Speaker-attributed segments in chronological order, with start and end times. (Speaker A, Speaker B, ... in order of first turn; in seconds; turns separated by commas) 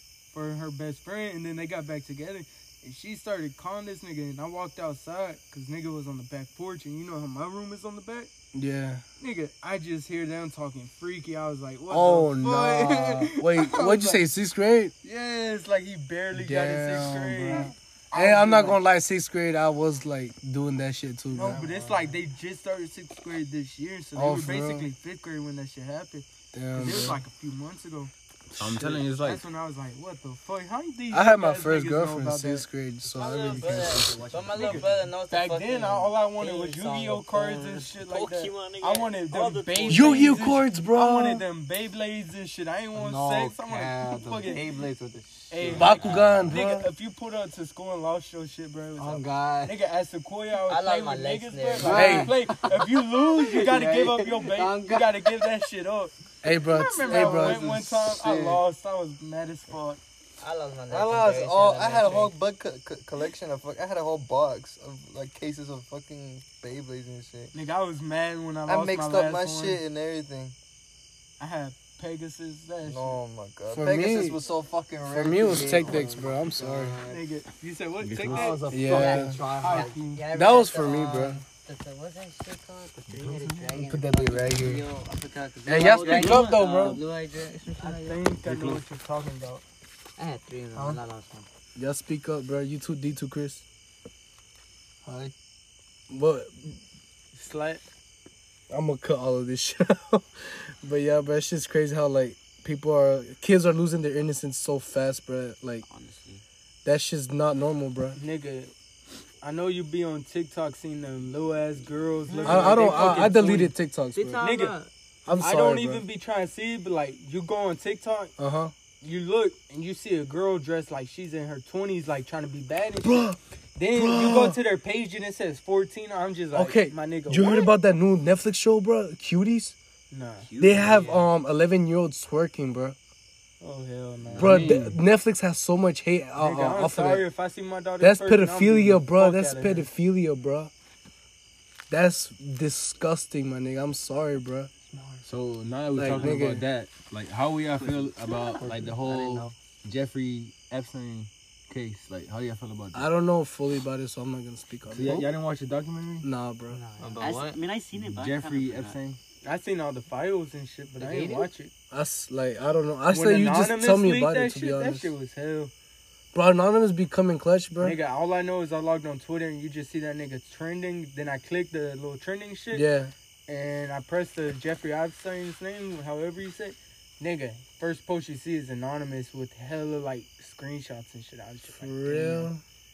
Speaker A: 0.3-8.3, Speaker B: 8.5-9.0, Speaker A: 9.2-14.2, Speaker B: 11.9-14.9, Speaker A: 15.0-18.8, Speaker B: 16.3-21.6, Speaker A: 21.3-28.1, Speaker C: 21.5-22.0, Speaker B: 24.2-24.9, Speaker B: 26.5-27.2, Speaker D: 28.5-29.4, Speaker B: 28.6-29.0, Speaker A: 28.7-32.6, Speaker B: 31.1-34.2, Speaker E: 33.0-35.1, Speaker F: 33.3-37.9, Speaker A: 34.5-44.7, Speaker E: 37.9-40.5, Speaker B: 39.9-41.5, Speaker C: 43.0-46.0, Speaker A: 45.5-56.1, Speaker E: 45.7-46.4, Speaker B: 45.8-46.9, Speaker C: 49.0-49.8, Speaker F: 50.6-52.4, Speaker B: 51.8-52.3, Speaker C: 51.8-55.3, Speaker B: 56.4-58.2, Speaker A: 56.7-60.0, Speaker C: 57.0-58.6, Speaker F: 60.4-62.3, Speaker C: 60.9-67.5, Speaker A: 67.5-69.8, Speaker C: 68.7-70.6, Speaker A: 71.4-73.2, Speaker C: 72.8-77.2, Speaker B: 73.7-74.4, Speaker B: 75.1-77.0, Speaker A: 77.1-78.6, Speaker D: 78.0-78.6, Speaker C: 78.3-79.8, Speaker F: 78.4-88.3, Speaker B: 78.7-79.4, Speaker A: 79.6-80.3, Speaker B: 80.3-81.4, Speaker C: 83.3-83.6, Speaker B: 83.8-84.9, Speaker B: 85.7-87.0, Speaker E: 85.8-87.0, Speaker A: 87.8-89.6, Speaker D: 88.4-88.8, Speaker F: 90.2-91.5, Speaker C: 90.8-91.0, Speaker B: 91.8-93.6, Speaker C: 95.0-95.3, Speaker B: 96.1-96.8, Speaker A: 97.3-97.8, Speaker B: 98.7-105.8, Speaker E: 105.8-106.4, Speaker B: 106.8-108.2, Speaker A: 108.2-108.7, Speaker A: 109.4-113.8, Speaker F: 112.3-113.5, Speaker B: 112.5-114.4, Speaker F: 114.1-114.9, Speaker A: 114.4-114.8, Speaker B: 115.3-116.0, Speaker A: 115.3-118.3, Speaker B: 118.4-118.7, Speaker A: 119.0-127.7, Speaker B: 123.0-123.4, Speaker B: 123.9-124.6, Speaker B: 126.5-129.8, Speaker A: 130.1-130.5, Speaker E: 130.4-131.3, Speaker B: 130.6-133.0, Speaker A: 133.6-134.7, Speaker E: 134.2-134.6, Speaker D: 134.3-135.0, Speaker B: 134.4-137.3, Speaker A: 136.4-139.9, Speaker B: 138.0-140.7, Speaker B: 141.9-144.7, Speaker C: 144.9-145.3, Speaker D: 145.2-153.1, Speaker B: 145.9-146.7, Speaker F: 148.4-149.5, Speaker C: 148.6-149.5, Speaker B: 152.9-155.3, Speaker D: 154.9-156.3, Speaker B: 156.2-156.8, Speaker F: 156.7-157.6, Speaker C: 157.0-157.6, Speaker E: 157.2-159.0, Speaker D: 157.9-159.2, Speaker A: 159.4-161.7, Speaker F: 161.0-161.5, Speaker B: 161.9-165.1, Speaker A: 163.1-165.7, Speaker B: 166.3-168.0, Speaker A: 167.8-172.9, Speaker B: 172.7-173.1, Speaker A: 173.5-182.5, Speaker B: 181.7-182.6